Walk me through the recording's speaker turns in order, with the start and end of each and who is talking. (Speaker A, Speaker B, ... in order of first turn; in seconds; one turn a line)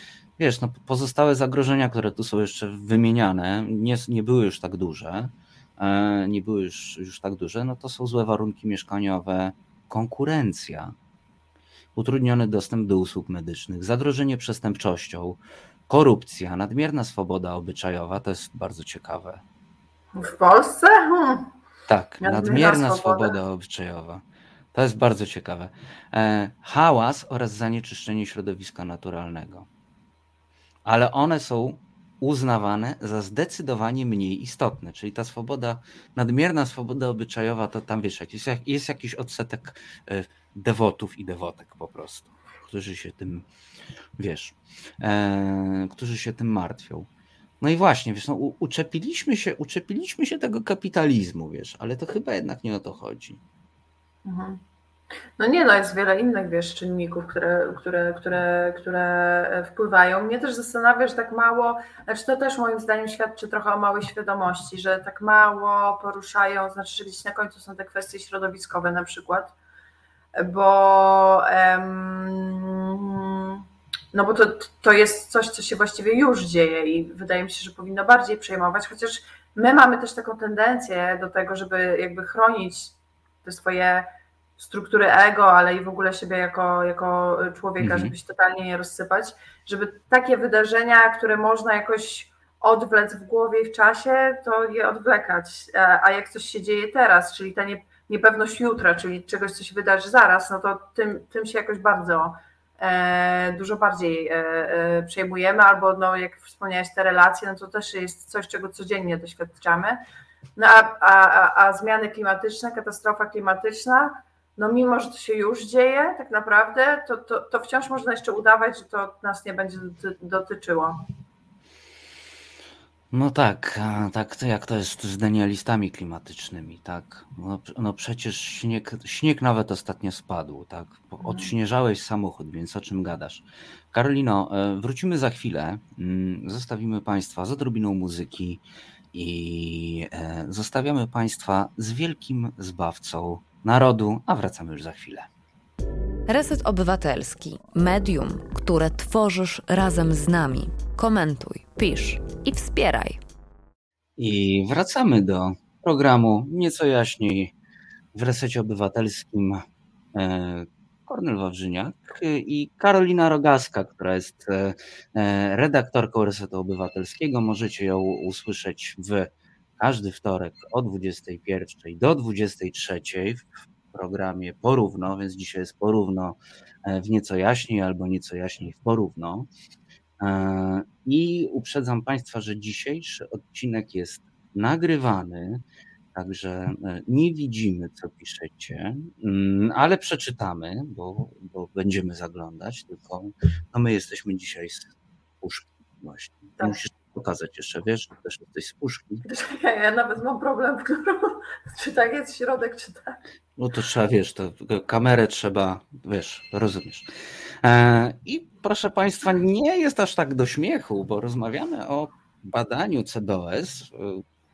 Speaker A: 0.4-10.9
Speaker A: 11.9-19.4
Speaker B: 20.2-21.5
Speaker A: 21.9-29.7
Speaker B: 22.2-23.4
Speaker A: 30.9-43.5
Speaker A: 44.2-47.1
Speaker A: 47.6-53.4
Speaker B: 54.2-54.6
Speaker B: 55.4-69.5
Speaker B: 70.4-73.6
Speaker B: 74.1-110.0
Speaker A: 87.8-88.1
Speaker B: 110.6-121.0
Speaker A: 123.1-145.3
Speaker B: 131.2-131.5
Speaker C: 146.3-153.2
Speaker A: 154.2-157.5
Speaker A: 158.2-159.6
Speaker A: 160.1-179.5
Speaker A: 180.2-185.6
Speaker A: 186.1-194.9
Speaker A: 195.4-199.2
Speaker B: 199.2-203.2
Speaker A: 203.6-207.1
Speaker A: 207.6-214.2